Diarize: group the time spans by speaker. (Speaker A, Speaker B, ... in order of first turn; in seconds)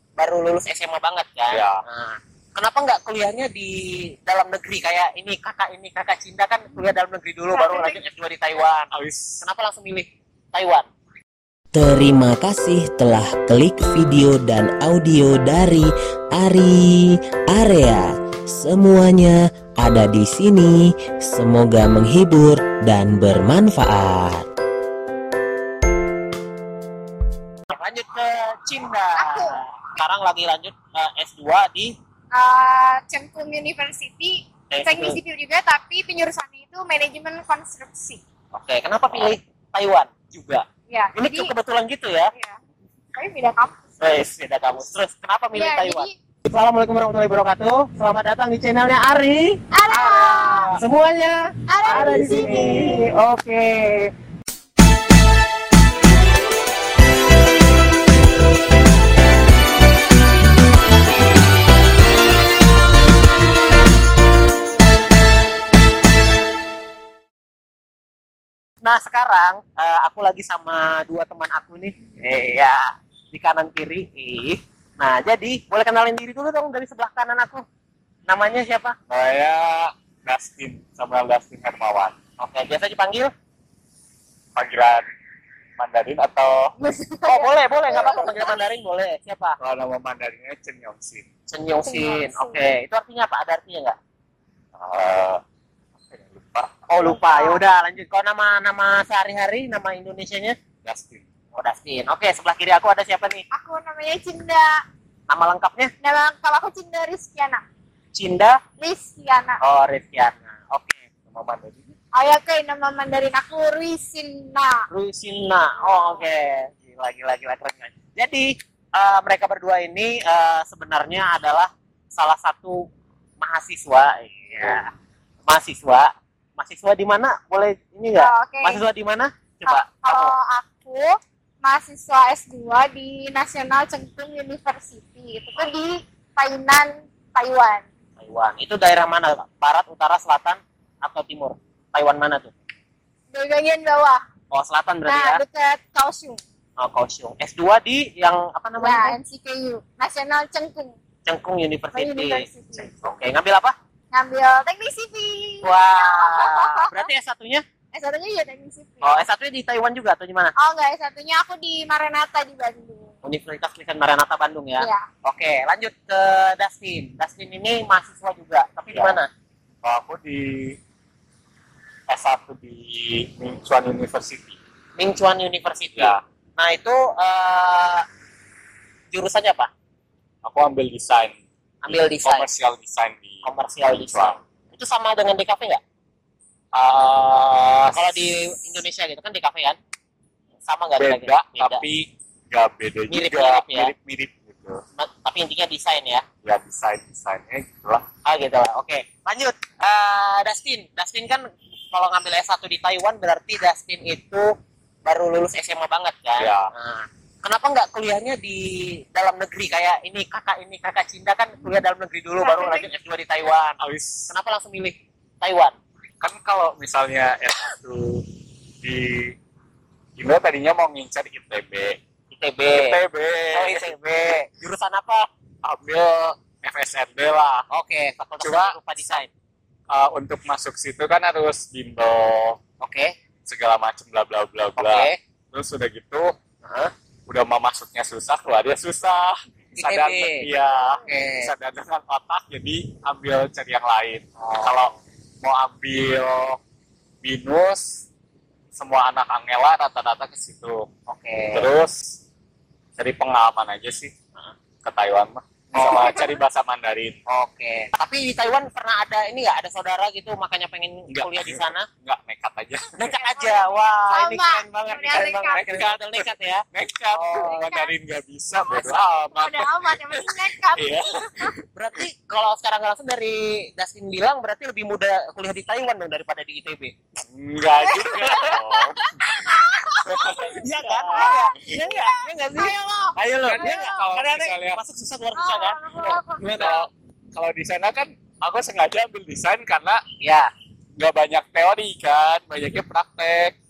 Speaker A: 0.2-10.8, 27.7-31.9, 34.7-35.2, 38.5-42.3, 44.0-54.1, 68.8-77.6, 78.3-78.9, 82.4-83.3, 87.2-89.6, 91.5-94.0, 96.9-100.6, 101.5-103.4, 105.3-105.9, 108.1-108.6, 109.6-111.7, 114.9-122.9, 123.4-124.9, 125.5-130.4, 138.2-142.5, 144.5-145.4, 146.8-149.2, 151.2-153.8, 155.6-157.6, 159.0-160.5, 163.2-169.3, 175.0-178.1, 179.1-179.7, 181.8-182.5, 183.4-185.8, 187.9-189.8, 190.6-191.8, 193.1-193.9, 194.9-196.2, 198.2-204.5, 205.0-215.7, 222.3-223.0, 223.5-225.3, 227.7-229.3, 232.8-233.1, 234.8-235.2, 236.6-236.9, 239.8-241.5, 244.4-244.9, 251.1-251.7, 255.7-256.1, 257.3-261.9, 263.0-267.7, 271.7-276.9, 278.1-278.6, 280.2-286.8, 290.2-290.5
Speaker B: 1.5-1.8, 8.9-9.4, 79.1-82.2, 84.5-85.0, 85.8-86.7, 89.6-91.2, 94.7-95.4, 96.1-96.7, 100.8-101.2, 111.3-111.7, 168.9-169.2, 169.8-170.8, 172.1-174.6, 175.9-176.2, 180.4-181.3, 182.1-184.3, 186.7-188.2, 191.0-194.8, 196.4-198.0, 206.4-206.7, 213.8-214.3, 216.2-218.2, 218.8-219.3, 220.2-222.0, 222.7-223.9, 225.6-227.7, 228.4-229.2, 229.9-232.6, 233.5-236.3, 237.3-246.6, 247.2-248.1, 248.7-250.9, 251.5-252.2, 253.0-254.1, 254.8-257.2, 261.1-263.1, 265.4-271.5, 277.3-279.0, 280.0-281.5, 283.4-284.8, 286.5-290.0, 291.0-293.5
Speaker C: 7.5-8.0, 29.1-29.6, 32.3-38.2, 40.9-41.5, 42.3-42.6, 43.1-44.0, 45.5-46.1, 49.7-50.8, 51.7-53.0, 86.8-88.5, 91.8-92.6, 97.0-97.6, 103.5-104.8, 106.0-107.6, 108.8-109.6, 112.1-114.8, 115.8-116.2, 128.1-128.8, 129.7-137.8, 143.3-144.2, 145.1-146.4, 148.8-150.9, 151.9-152.9, 154.1-157.1, 157.9-159.2, 160.6-163.1, 164.8-165.1, 212.4-212.9, 255.7-256.4, 263.2-265.7, 267.3-267.9, 268.6-271.5, 277.8-284.0, 285.3-286.8
Speaker D: 11.7-24.4